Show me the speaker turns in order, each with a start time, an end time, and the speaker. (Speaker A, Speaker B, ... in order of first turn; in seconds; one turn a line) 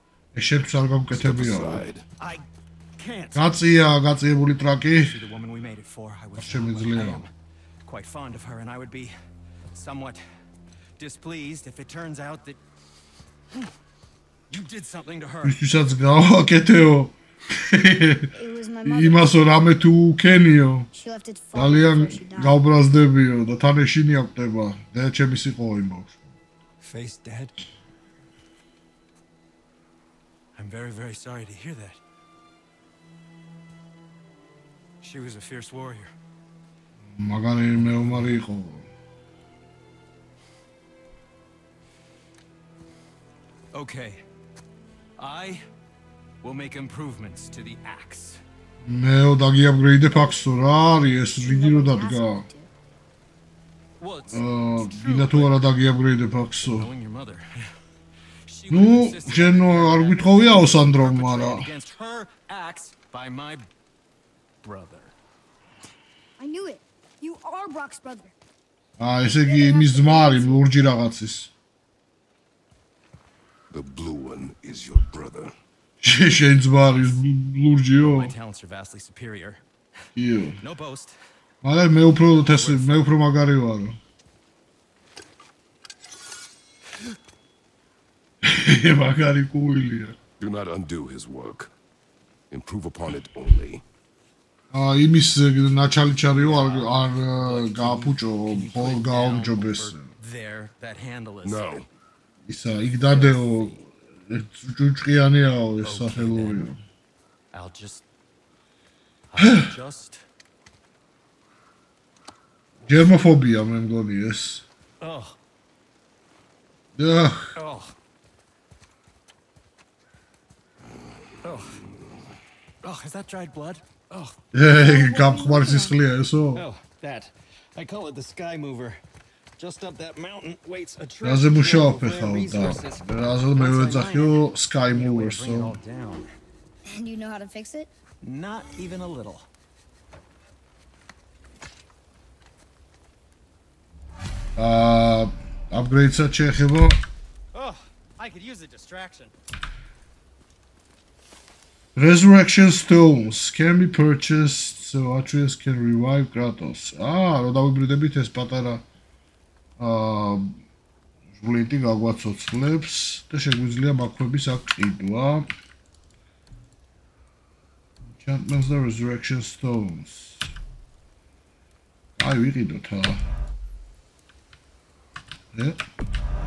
Speaker A: 0.3-1.9
Speaker B: 1.1-2.0
Speaker C: 2.2-2.4
Speaker C: 3.0-3.6
Speaker A: 3.3-5.2
Speaker C: 5.0-7.3
Speaker A: 6.3-7.3
Speaker C: 7.8-9.1
Speaker C: 9.7-10.2
Speaker C: 11.0-12.6
Speaker C: 14.5-15.6
Speaker A: 15.4-18.3
Speaker D: 18.3-19.3
Speaker A: 18.8-20.9
Speaker D: 20.9-22.6
Speaker A: 21.5-26.3
Speaker C: 26.8-27.5
Speaker C: 30.6-32.0
Speaker C: 35.0-36.1
Speaker A: 37.0-38.9
Speaker C: 37.8-38.3
Speaker C: 43.7-44.2
Speaker C: 45.2-45.6
Speaker C: 46.4-48.4
Speaker A: 48.8-52.4
Speaker D: 51.4-52.7
Speaker C: 54.0-55.7
Speaker A: 54.3-56.9
Speaker C: 56.6-57.5
Speaker C: 58.5-63.6
Speaker A: 58.7-61.7
Speaker C: 64.6-65.1
Speaker D: 66.4-68.3
Speaker A: 69.0-71.5
Speaker D: 69.4-70.7
Speaker B: 73.7-75.5
Speaker A: 76.0-78.3
Speaker C: 78.0-79.6
Speaker A: 80.2-80.6
Speaker C: 80.6-81.2
Speaker A: 81.6-84.0
Speaker C: 82.5-83.0
Speaker A: 88.4-90.2
Speaker B: 90.4-91.7
Speaker B: 92.5-93.8
Speaker A: 94.7-100.1
Speaker C: 96.2-101.8
Speaker B: 101.4-101.9
Speaker A: 102.5-106.8
Speaker C: 103.0-103.8
Speaker C: 105.8-106.7
Speaker C: 107.5-108.0
Speaker C: 109.3-110.2
Speaker A: 109.4-109.7
Speaker A: 112.9-114.7
Speaker C: 115.0-115.4
Speaker A: 117.0-117.5
Speaker C: 117.5-117.9
Speaker C: 121.4-121.8
Speaker C: 122.8-124.4
Speaker A: 124.5-126.7
Speaker D: 124.8-125.9
Speaker C: 125.5-125.7
Speaker C: 126.5-129.0
Speaker C: 129.6-136.3
Speaker A: 131.2-135.8
Speaker D: 136.8-137.9
Speaker C: 138.2-139.5
Speaker A: 144.6-147.0
Speaker C: 147.5-149.3
Speaker A: 151.9-158.8
Speaker A: 159.8-160.6
Speaker A: 161.3-165.4
Speaker A: 168.1-170.5
Speaker A: 172.2-173.2
Speaker A: 175.5-175.8